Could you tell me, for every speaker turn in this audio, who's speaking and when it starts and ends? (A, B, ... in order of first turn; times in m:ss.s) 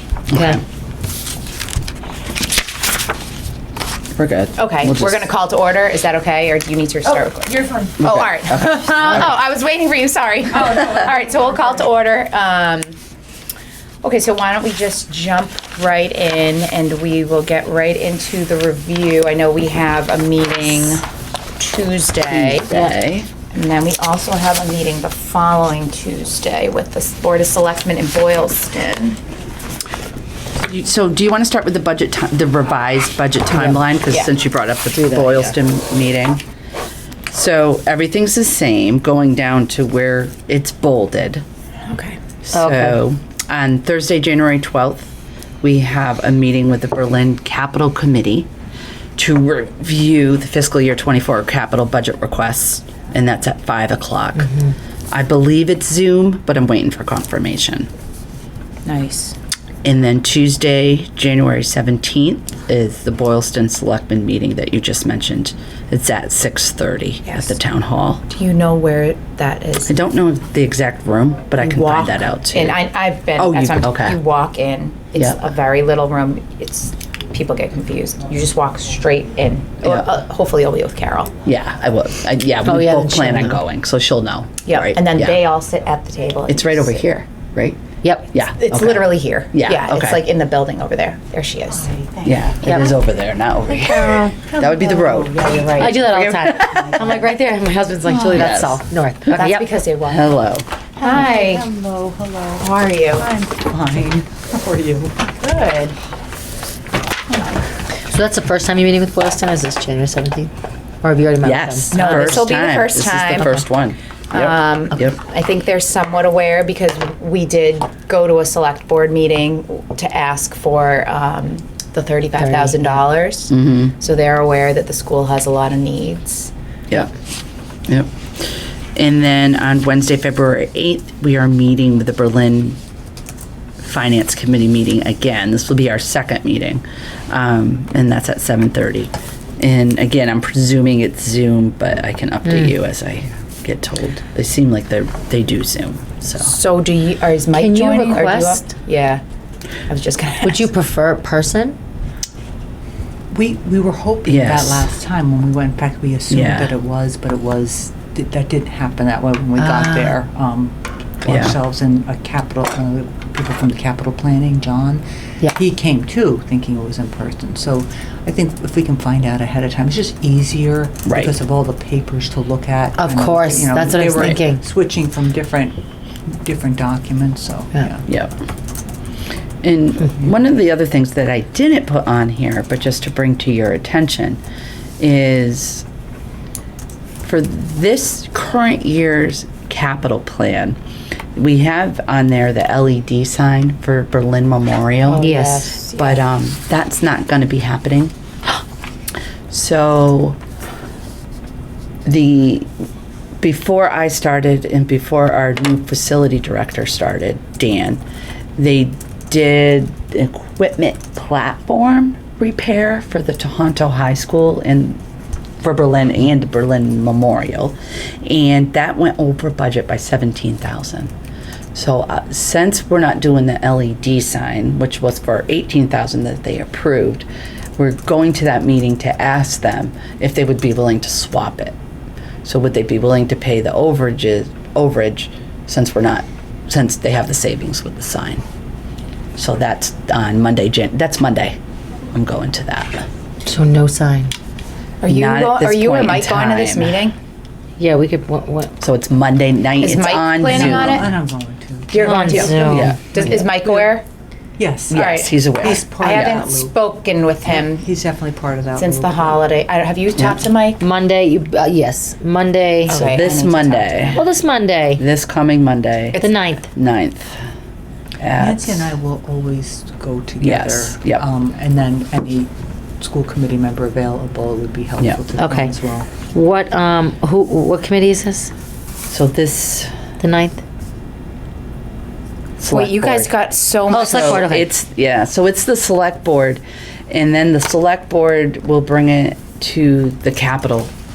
0:00.3-0:00.6 A
0:00.3-0:00.6 B
0:04.2-0:05.2 A
0:04.5-0:13.0 C
0:07.6-0:07.9 D
0:08.0-0:09.3 A
0:14.0-0:21.0 C
0:21.6-0:22.9 C
0:22.3-0:23.3 A
0:23.5-0:29.2 C
0:30.6-0:36.4 A
0:34.9-0:35.6 B
0:37.3-0:41.4 A
0:41.8-0:42.2 C
0:42.4-0:48.5 A
0:42.5-0:43.0 B
0:49.2-0:57.9 A
0:58.8-0:59.3 C
0:59.8-1:08.2 A
1:07.2-1:07.6 C
1:08.3-1:09.9 C
1:09.8-1:12.8 A
1:11.6-1:21.3 C
1:13.4-1:14.2 A
1:19.8-1:20.1 A
1:21.4-1:25.4 A
1:22.6-1:23.6 B
1:24.6-1:27.0 C
1:26.5-1:27.8 A
1:28.3-1:30.2 A
1:28.6-1:31.9 C
1:31.7-1:32.8 D
1:32.2-1:37.0 A
1:34.0-1:34.3 B
1:34.1-1:37.4 D
1:35.7-1:39.6 B
1:38.2-1:38.8 A
1:39.3-1:40.4 C
1:40.1-1:40.7 A
1:41.0-1:41.6 C
1:41.0-1:45.3 D
1:42.6-1:43.3 C
1:45.3-1:46.0 C
1:48.1-1:50.5 B
1:51.0-1:52.4 B
1:51.4-1:55.2 A
1:51.9-1:53.6 C
1:54.3-2:06.5 C
2:02.4-2:03.0 B
2:03.5-2:03.9 A
2:07.9-2:12.8 A
2:13.8-2:26.5 A
2:26.4-2:29.2 C
2:27.5-2:28.7 B
2:29.9-2:30.7 C
2:30.4-2:31.8 B
2:33.3-2:58.0 D
2:34.2-2:34.9 A
2:36.3-2:36.7 A
2:39.6-2:40.2 B
2:41.2-2:41.5 A
2:51.0-2:51.3 A
2:53.0-2:54.6 B
2:58.1-2:58.3 A
2:59.6-3:04.4 A
3:05.0-3:05.8 A
3:07.2-3:10.8 A
3:11.4-3:15.3 A
3:15.1-3:16.2 C
3:15.2-3:15.7 B
3:15.9-3:18.6 A
3:19.5-3:20.4 A
3:22.0-3:22.7 A
3:23.4-3:28.0 A
3:28.6-3:35.0 A
3:35.6-3:41.1 A
3:41.7-3:47.2 A
3:47.8-3:51.7 A
3:52.4-3:58.4 A
3:59.4-4:01.6 A
4:02.1-4:03.0 A
4:03.4-4:04.3 B
4:05.0-4:07.1 C
4:05.0-4:07.1 A
4:07.8-4:08.7 B
4:08.8-4:11.1 A
4:09.8-4:11.1 C
4:10.4-4:12.6 D
4:11.9-4:14.0 C
4:12.0-4:13.3 B
4:12.3-4:13.0 A
4:13.2-4:13.9 D
4:14.6-4:16.8 D
4:14.9-4:16.5 A
4:14.9-4:17.9 C
4:17.5-4:19.5 D
4:18.8-4:20.8 C
4:20.8-4:23.0 B
4:22.8-4:24.2 C
4:22.9-4:24.2 A
4:24.1-4:25.0 B
4:25.0-4:27.4 A
4:26.1-4:26.7 B
4:28.2-4:28.9 A
4:28.4-4:36.1 D
4:30.4-4:31.2 A
4:35.3-4:38.5 B
4:39.1-4:39.9 A
4:40.2-4:40.6 B
4:42.6-4:43.3 A
4:42.6-4:44.5 C
4:43.9-4:44.7 B
4:43.9-4:50.9 A